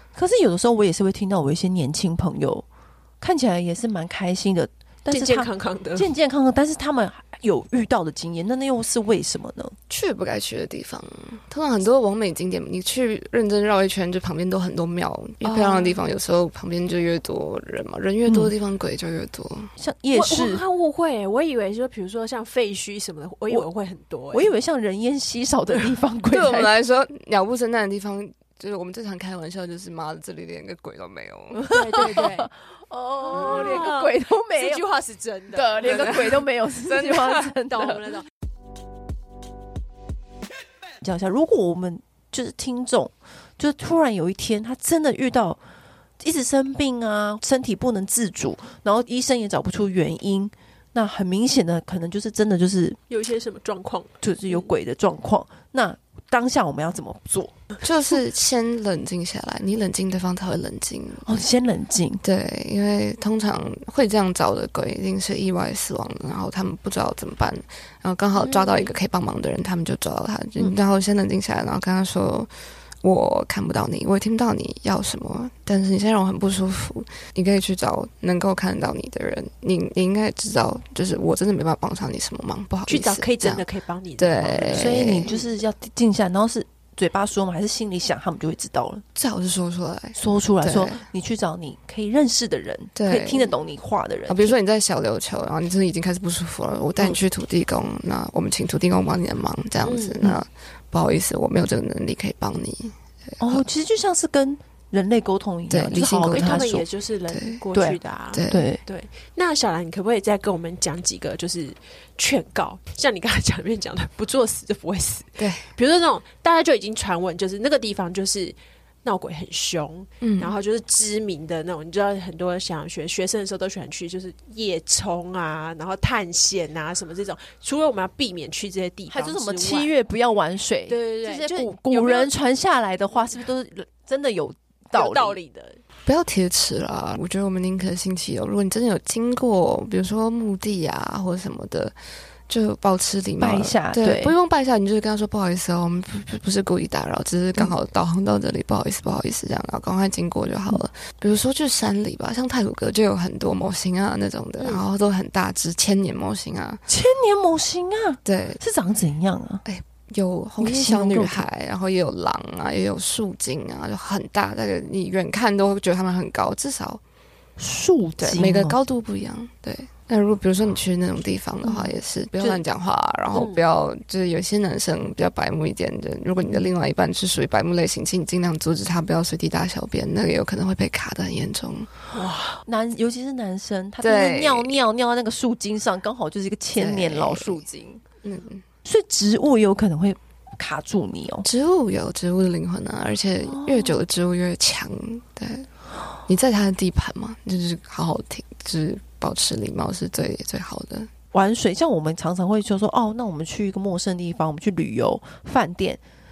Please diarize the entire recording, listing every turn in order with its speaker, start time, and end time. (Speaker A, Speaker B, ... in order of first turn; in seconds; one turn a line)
Speaker A: 0.1-2.7
Speaker A: 3.2-9.8
Speaker B: 5.1-6.1
Speaker C: 9.9-19.7
Speaker B: 15.4-16.0
Speaker A: 18.3-18.5
Speaker A: 19.8-20.6
Speaker B: 20.1-24.5
Speaker A: 24.3-26.7
Speaker C: 26.3-32.1
Speaker A: 31.6-34.9
Speaker B: 31.7-32.5
Speaker B: 33.2-36.4
Speaker A: 35.5-38.1
Speaker C: 35.8-36.3
Speaker C: 36.9-37.4
Speaker B: 37.6-38.3
Speaker A: 41.0-45.6
Speaker A: 46.2-53.0
Speaker B: 53.1-54.6
Speaker A: 54.2-57.6
Speaker C: 57.8-61.4
Speaker A: 61.3-62.2
Speaker C: 62.2-72.5
Speaker B: 68.4-68.9
Speaker C: 73.0-83.6
Speaker B: 82.9-85.1
Speaker C: 84.2-85.4
Speaker A: 84.7-89.0
Speaker C: 89.2-91.0
Speaker A: 90.2-94.6
Speaker C: 93.0-93.5
Speaker C: 94.3-103.6
Speaker B: 99.8-100.3
Speaker A: 103.4-106.8
Speaker C: 105.7-106.8
Speaker B: 106.3-129.9
Speaker C: 107.3-107.6
Speaker A: 107.7-108.8
Speaker C: 108.3-108.7
Speaker C: 115.4-115.6
Speaker C: 120.2-120.5
Speaker A: 129.1-135.4
Speaker B: 130.9-132.3
Speaker B: 134.9-135.8
Speaker C: 136.1-141.9
Speaker C: 142.5-156.8
Speaker A: 143.4-144.3
Speaker A: 156.9-159.6
Speaker C: 158.2-158.6
Speaker C: 159.7-167.0
Speaker A: 160.6-161.4
Speaker A: 167.6-168.8
Speaker C: 168.3-181.9
Speaker B: 173.3-173.6
Speaker B: 182.1-182.6
Speaker A: 182.7-188.0
Speaker C: 184.0-184.8
Speaker C: 186.8-187.6
Speaker C: 188.2-188.6
Speaker A: 188.8-191.5
Speaker C: 191.4-195.7
Speaker A: 193.4-194.0
Speaker C: 196.3-201.1
Speaker A: 201.3-206.0